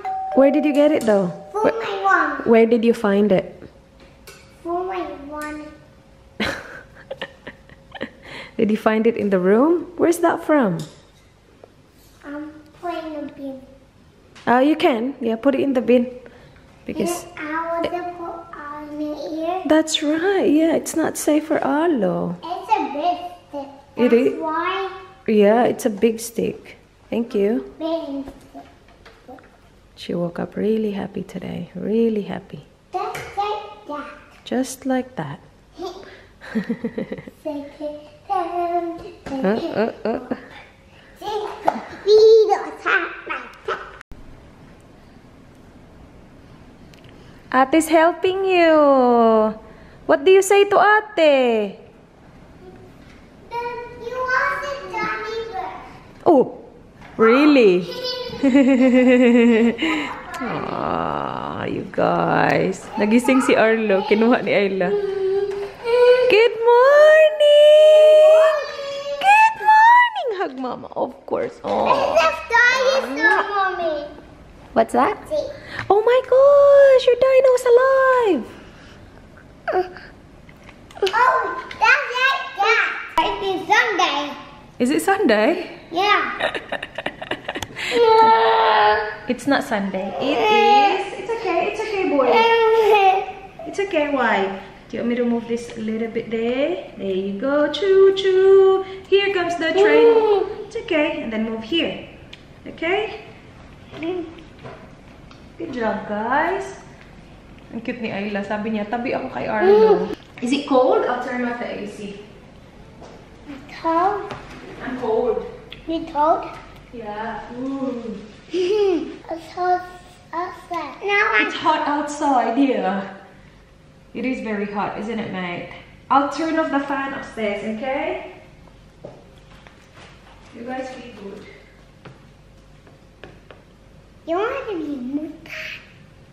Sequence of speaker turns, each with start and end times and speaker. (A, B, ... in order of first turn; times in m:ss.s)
0:00.3-0:01.7 A
0:01.6-0:02.4 B
0:02.4-0:03.5 A
0:04.6-0:05.6 B
0:08.6-0:10.9 A
0:12.2-0:13.6 B
0:14.5-0:16.1 A
0:16.9-0:17.2 A
0:17.0-0:19.6 B
0:19.6-0:22.4 A
0:22.4-0:24.9 B
0:24.0-0:24.4 A
0:25.3-0:27.7 A
0:27.8-0:28.6 B
0:30.0-0:32.6 A
0:32.9-0:34.1 B
0:34.4-0:35.4 A
0:36.5-0:37.0 A
0:37.4-0:39.5 B
0:39.4-0:40.4 A
0:41.2-0:43.8 B
0:47.5-0:49.5 A
0:50.1-0:51.8 A
0:53.5-0:55.8 B
0:56.2-0:56.6 A
0:57.2-0:59.8 A
0:57.9-0:58.3 B
1:00.1-1:00.4 B
1:00.4-1:05.0 A
1:06.3-1:13.4 A
1:08.4-1:08.6 B
1:11.8-1:14.1 B
1:14.7-1:15.2 A
1:15.2-1:15.5 B
1:15.9-1:18.5 A
1:21.1-1:24.4 B
1:24.8-1:25.7 A
1:25.9-1:26.3 B
1:27.9-1:28.8 B
1:29.3-1:32.5 A
1:32.3-1:33.1 B
1:33.6-1:42.0 A
1:40.0-1:40.3 B
1:42.6-1:43.2 A
1:45.6-1:46.8 A
1:47.7-1:52.2 A
1:53.5-1:54.2 B
1:54.8-1:55.5 A
1:55.9-1:56.5 B
1:56.9-1:58.2 A
1:59.3-2:01.5 B
2:01.4-2:03.1 A
2:04.1-2:08.2 A
2:10.5-2:11.5 A
2:14.2-2:15.8 B